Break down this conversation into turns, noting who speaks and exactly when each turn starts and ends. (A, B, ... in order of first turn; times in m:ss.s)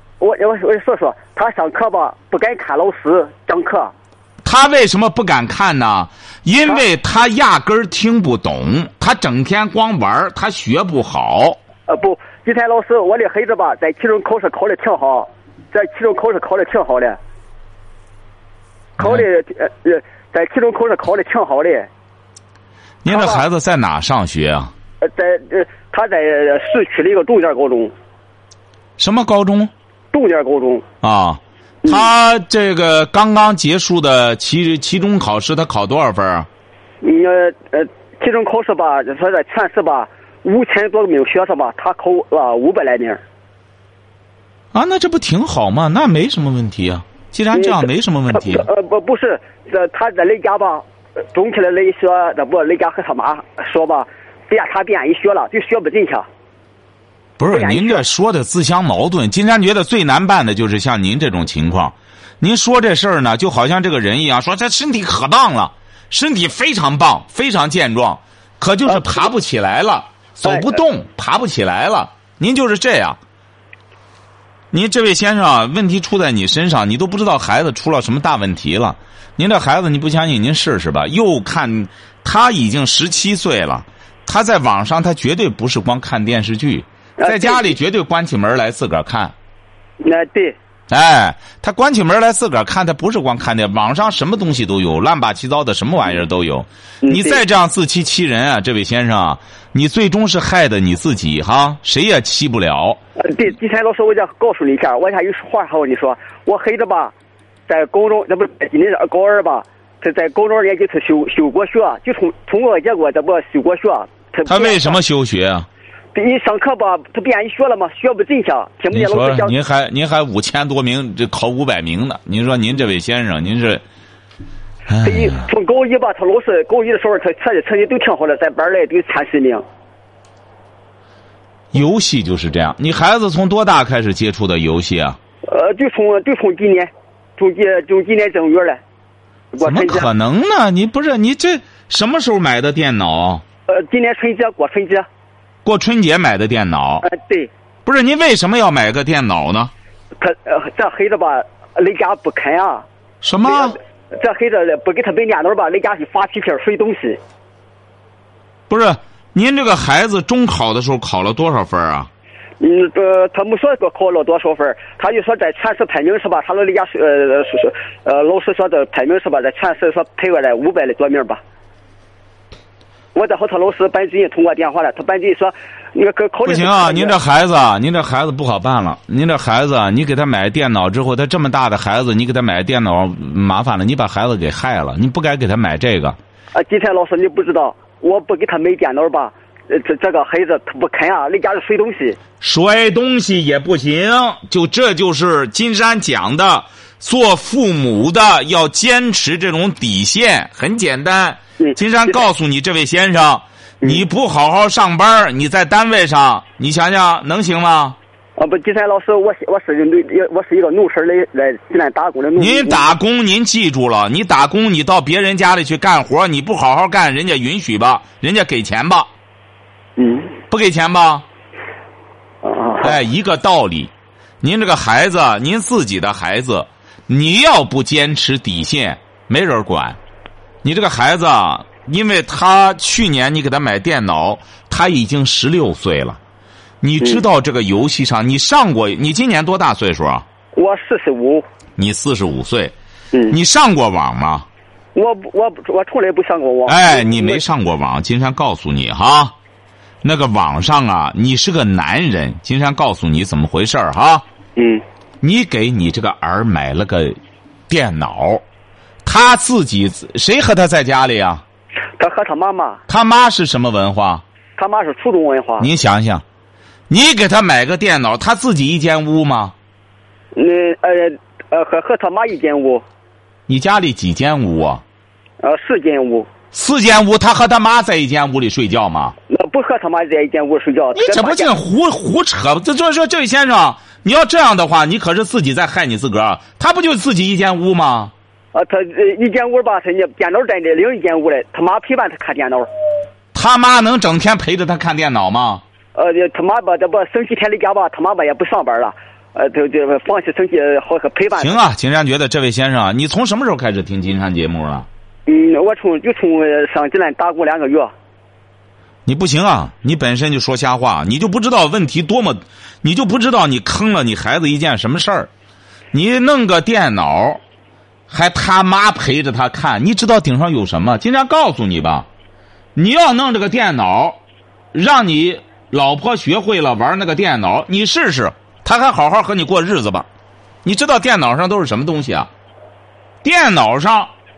0:00.2-0:03.9 A
0:04.4-0:11.6 B
0:11.9-0:17.2 A
0:19.0-0:21.9 A
0:19.0-0:19.2 B
0:23.0-0:24.7 B
0:23.1-0:23.4 A
0:25.0-0:27.9 A
0:29.0-0:29.7 B
0:30.1-0:30.8 A
0:31.0-0:36.5 B
0:37.0-0:43.2 A
0:44.7-0:48.7 B
0:47.5-0:56.2 A
0:57.4-1:13.2 B
0:57.5-0:58.0 A
1:10.4-1:10.7 A
1:14.7-1:29.3 B
1:27.2-1:27.7 A
1:30.0-1:30.6 A
1:30.9-1:43.0 B
1:37.0-1:37.4 A
1:43.2-1:47.1 A
1:47.7-1:55.0 A
1:54.4-1:55.7 B
1:56.1-1:59.5 A
1:58.9-2:03.8 B
2:04.9-2:05.5 B
2:05.0-2:09.6 A
2:11.7-2:15.2 B
2:15.4-2:18.8 A
2:19.5-2:20.1 A
2:19.6-2:23.4 B
2:23.7-2:25.1 A
2:25.6-2:27.0 B
2:27.0-2:27.5 A
2:27.8-2:29.7 B
2:30.2-2:32.8 A
2:33.2-2:33.8 B
2:33.5-2:37.2 A
2:38.7-2:42.1 B
2:42.6-2:51.4 A
2:53.1-2:57.1 A
2:56.4-3:06.2 B
3:06.5-3:12.2 A
3:12.4-3:28.0 B
3:21.6-3:22.2 A
3:28.4-3:32.8 A
3:32.4-3:39.1 B
3:40.0-3:40.3 A
3:40.5-3:41.2 B
3:42.4-3:43.0 A
3:42.8-3:50.0 B
3:50.6-3:56.2 B
3:56.8-4:00.2 B
4:00.5-4:01.4 A
4:01.8-4:02.7 B
4:03.3-4:04.4 B
4:04.9-4:07.4 A
4:06.7-4:09.4 B
4:10.0-4:14.2 B
4:14.6-4:14.8 A
4:15.2-4:17.2 B
4:17.7-4:18.4 B
4:19.0-4:21.4 B
4:22.0-4:22.8 A
4:22.9-4:24.2 B
4:24.6-4:25.7 A
4:25.6-4:26.2 B
4:26.9-4:29.5 B
4:30.3-4:32.8 A
4:33.5-4:34.8 B
4:35.4-4:36.3 A
4:36.5-4:39.2 B
4:39.3-4:41.5 A
4:40.9-4:48.1 B
4:48.5-4:52.7 A
4:53.3-4:55.6 B
4:55.9-5:01.6 A
5:01.4-5:04.9 B
5:05.3-5:07.9 A
5:09.0-5:15.3 B
5:15.9-5:17.4 B
5:18.1-5:22.1 B
5:22.8-5:24.2 B
5:24.7-5:30.1 B
5:30.6-5:32.3 B
5:33.2-5:34.1 B